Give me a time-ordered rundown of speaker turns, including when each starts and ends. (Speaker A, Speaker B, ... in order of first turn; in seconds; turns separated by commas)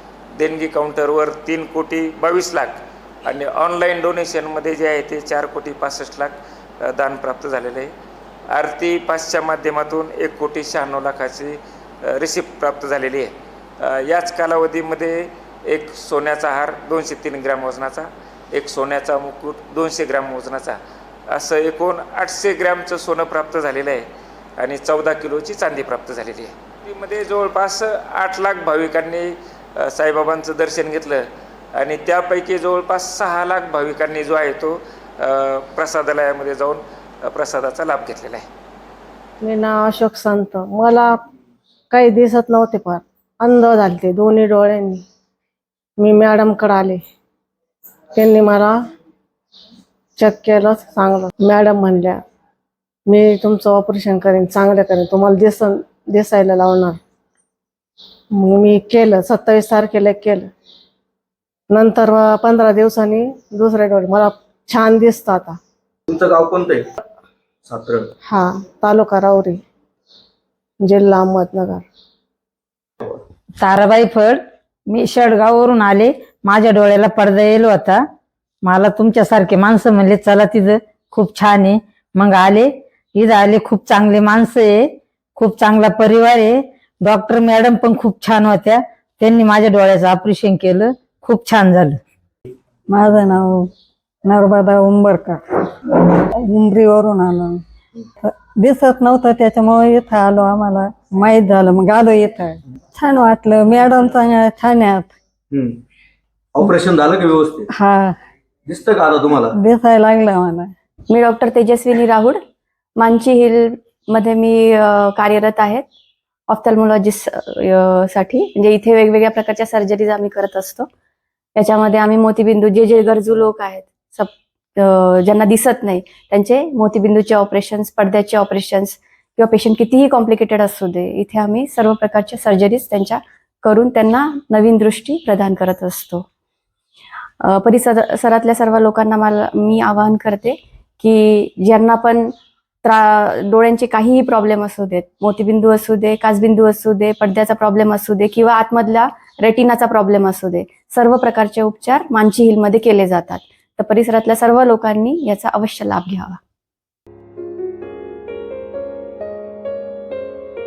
Speaker A: 0.3-7.9, Speaker A: 8.5-24.1, Speaker A: 24.6-38.5, Speaker B: 39.4-41.1, Speaker B: 41.9-45.0, Speaker B: 46.0-47.0, Speaker B: 48.1-48.8, Speaker B: 50.2-52.2, Speaker B: 53.1-57.0, Speaker B: 58.3-60.5, Speaker B: 61.7-65.6, Speaker C: 66.1-66.8, Speaker C: 67.6-68.1, Speaker B: 68.2-69.6, Speaker B: 70.8-71.8, Speaker D: 73.6-78.0, Speaker D: 78.6-92.0, Speaker E: 92.9-93.7, Speaker E: 94.2-97.6, Speaker E: 98.2-105.1, Speaker C: 105.5-105.8, Speaker C: 106.5-107.7, Speaker E: 107.7-108.2, Speaker C: 108.7-109.5, Speaker E: 109.5-110.7, Speaker F: 111.1-112.4, Speaker F: 113.0-115.8, Speaker F: 116.5-120.9, Speaker F: 121.5-136.2, Speaker F: 137.4-156.4